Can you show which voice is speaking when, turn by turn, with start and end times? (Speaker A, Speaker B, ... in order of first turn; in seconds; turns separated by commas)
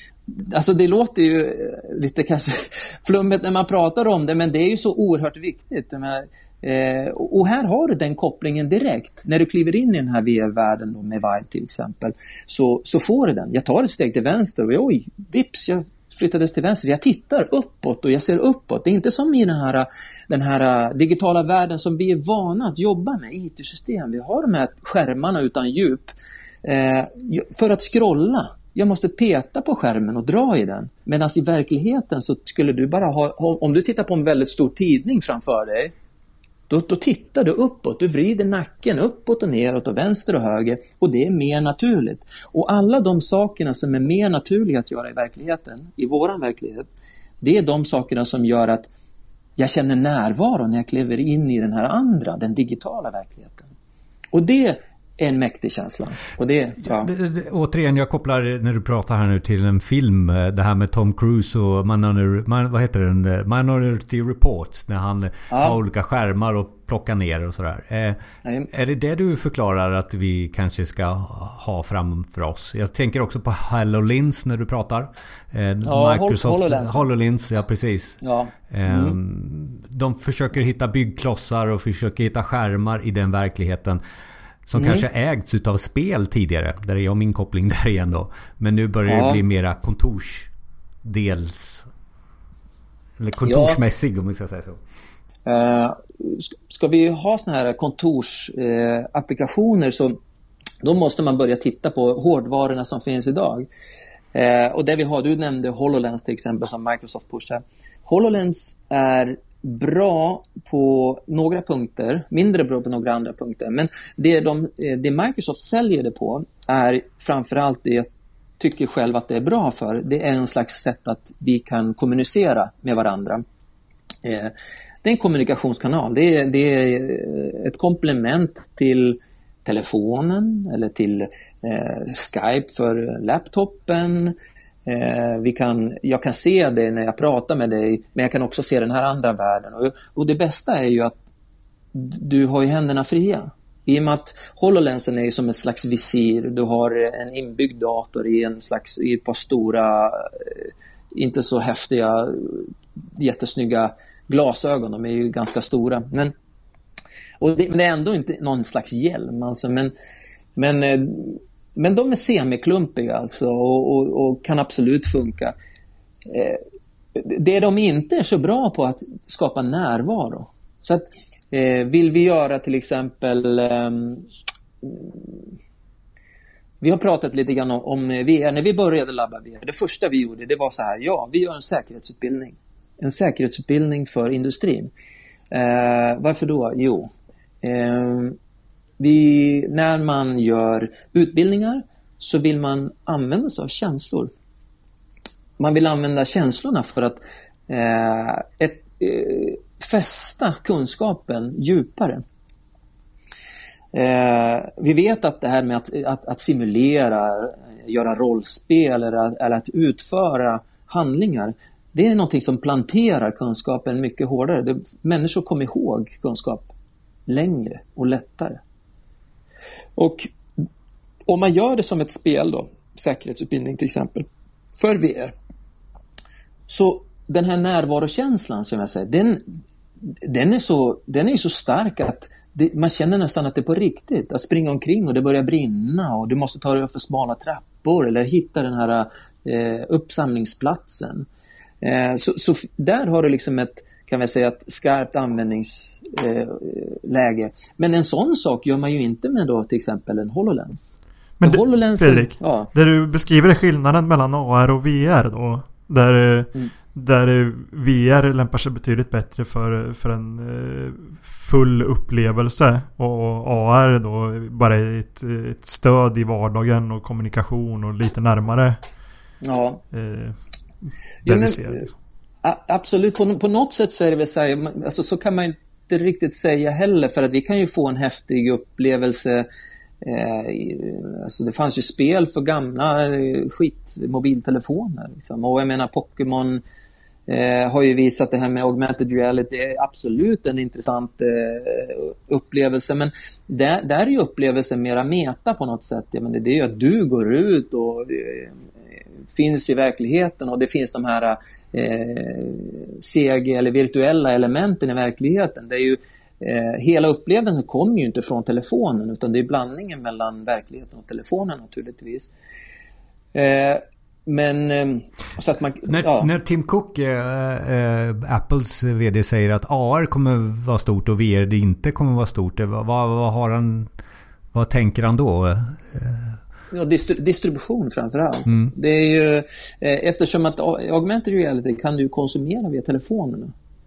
Speaker A: 0.3-26.1, Speaker A: 26.6-35.9, Speaker A: 36.7-46.9, Speaker A: 47.4-48.9, Speaker A: 49.6-53.7, Speaker A: 54.3-57.1, Speaker B: 56.8-84.0, Speaker A: 65.5-65.8, Speaker A: 68.4-68.7, Speaker A: 75.8-77.1, Speaker A: 78.2-79.2, Speaker B: 84.7-90.5, Speaker A: 84.8-85.0, Speaker A: 89.0-89.4, Speaker B: 91.0-91.9, Speaker B: 93.2-94.8, Speaker A: 93.4-93.8, Speaker A: 95.5-100.2, Speaker A: 100.8-103.7, Speaker A: 104.3-118.1, Speaker A: 118.6-123.4, Speaker A: 124.2-134.3, Speaker A: 134.9-141.2, Speaker A: 141.9-156.3, Speaker A: 157.4-159.9, Speaker A: 160.6-165.5, Speaker A: 166.2-166.6, Speaker A: 167.2-174.2, Speaker A: 174.8-175.4, Speaker A: 176.8-184.9, Speaker A: 185.5-187.1, Speaker A: 187.6-188.4, Speaker A: 189.0-194.3, Speaker A: 195.6-202.2, Speaker A: 203.9-216.7, Speaker A: 217.3-218.6, Speaker A: 219.9-220.3, Speaker A: 221.3-225.3, Speaker A: 226.7-229.4, Speaker A: 230.2-241.2, Speaker A: 241.8-252.7, Speaker C: 251.4-268.8, Speaker A: 269.4-269.8, Speaker C: 269.9-270.4, Speaker C: 271.2-271.9, Speaker A: 271.2-271.9, Speaker A: 272.4-279.4, Speaker A: 280.0-286.6, Speaker A: 287.3-298.5, Speaker A: 299.3-312.3, Speaker A: 313.3-316.3, Speaker B: 315.9-323.9, Speaker B: 324.5-326.4, Speaker A: 326.7-333.5